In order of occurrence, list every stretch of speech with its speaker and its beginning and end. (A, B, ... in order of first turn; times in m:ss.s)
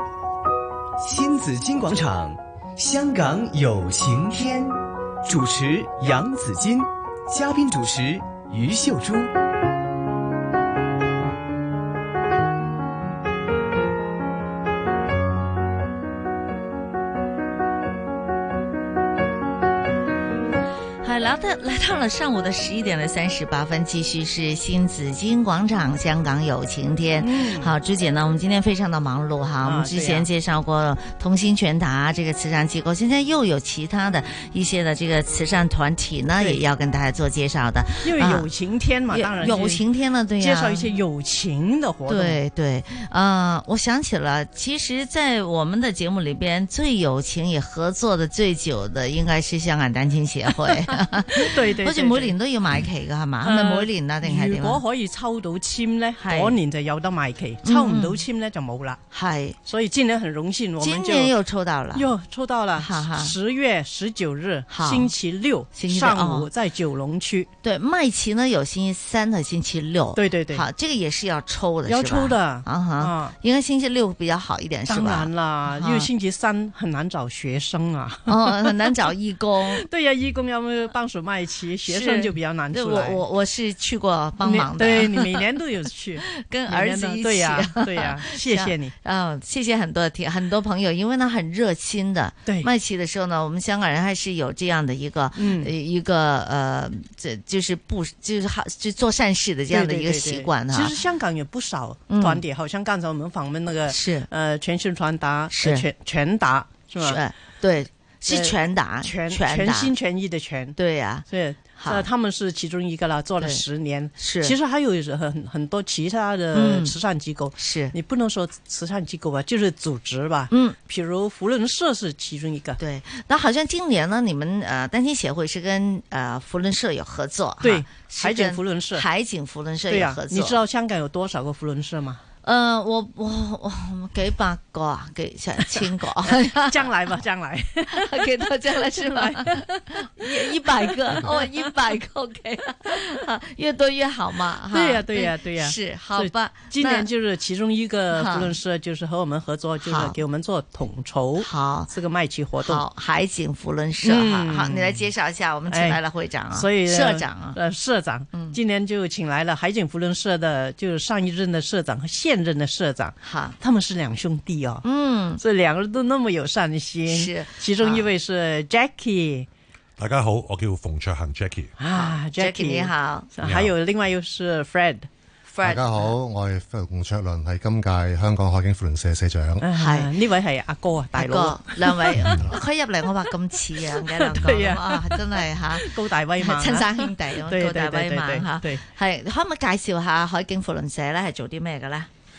0:01.0-0:09.3 A
0:21.0-0:38.5 B
0:27.2-0:27.7 C
0:29.6-0:30.3 C
0:38.0-0:39.8 C
0:39.1-0:40.9 B
0:40.4-0:42.4 C
0:42.1-0:54.8 B
0:51.4-0:52.4 C
0:53.4-0:59.0 C
0:56.2-0:56.6 B
0:57.6-0:58.2 B
0:59.1-0:59.6 B
0:59.6-1:01.3 C
1:00.8-1:02.1 B
1:01.9-1:07.5 C
1:02.8-1:03.3 B
1:04.7-1:05.1 B
1:05.7-1:06.5 B
1:07.6-1:16.1 B
1:10.2-1:10.7 C
1:11.9-1:13.4 C
1:14.9-1:19.0 C
1:18.3-1:19.9 B
1:19.7-1:23.2 C
1:21.9-1:25.4 B
1:24.4-1:28.9 C
1:26.2-1:41.0 B
1:35.4-1:35.7 C
1:39.7-1:47.2 C
1:42.1-1:42.4 B
1:43.9-1:44.3 B
1:45.5-1:45.9 B
1:47.0-1:49.9 B
1:48.3-2:02.8 C
1:50.8-1:51.2 B
1:51.8-1:52.1 B
1:54.2-1:54.6 B
1:56.5-1:57.0 B
1:57.6-1:58.0 B
2:00.5-2:00.8 B
2:02.8-2:10.6 B
2:07.6-2:09.0 C
2:09.9-2:12.2 C
2:12.4-2:16.9 B
2:16.2-2:21.6 C
2:17.9-2:27.1 B
2:24.7-2:32.8 C
2:28.1-2:28.6 B
2:29.8-2:30.2 B
2:31.4-2:31.9 B
2:32.6-2:37.6 B
2:34.0-2:35.0 C
2:35.7-2:44.8 C
2:38.3-2:38.6 B
2:43.2-2:43.6 B
2:44.8-2:45.4 B
2:45.4-2:49.5 C
2:47.1-2:48.1 B
2:50.0-2:51.8 D
2:51.8-2:55.1 C
2:51.9-2:53.3 B
2:53.4-2:53.7 D
2:55.5-2:56.1 B
2:55.6-2:59.7 E
2:59.6-3:02.4 C
2:59.8-3:00.1 B
3:01.1-3:12.1 B
3:02.3-3:02.6 E
3:04.1-3:08.8 C